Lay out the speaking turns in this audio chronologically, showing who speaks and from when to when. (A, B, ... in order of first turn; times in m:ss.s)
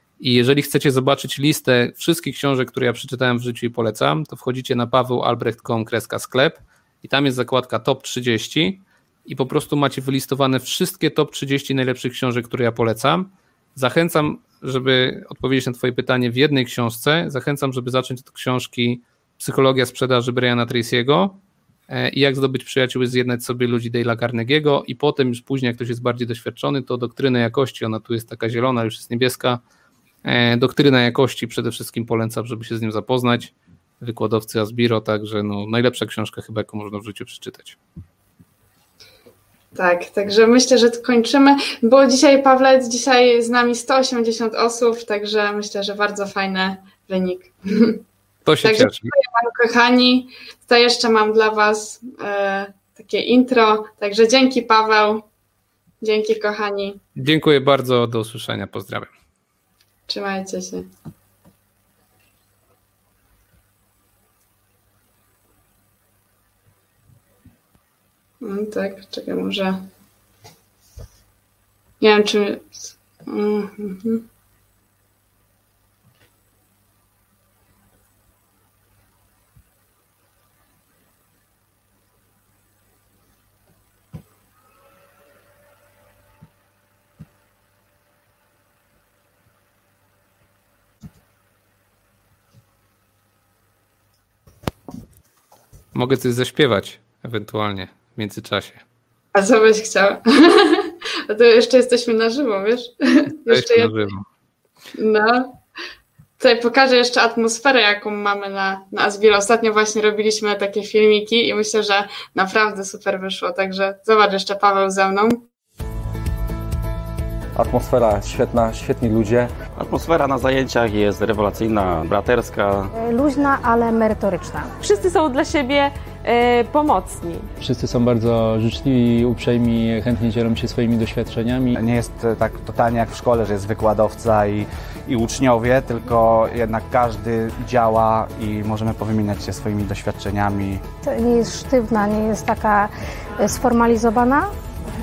0:00.2-0:29.6 A
0:30.2-0:37.8 A
0:39.7-0:48.0 B
0:48.4-0:49.1 A
0:48.6-0:55.2 B
0:56.0-0:57.0 B
0:57.2-0:59.1 A
1:00.1-1:00.9 B
1:08.4-1:09.8 B
1:12.0-1:14.2 B
1:35.9-1:38.8 A
1:39.3-1:43.9 B
1:43.5-1:44.2 A
1:44.9-1:45.6 B
1:46.4-1:55.4 B
1:57.6-1:59.5 C
1:59.8-2:02.9 D
2:03.0-2:04.7 E
2:04.8-2:07.5 F
2:07.6-2:11.7 G
2:11.7-2:20.8 H
2:21.0-2:24.5 E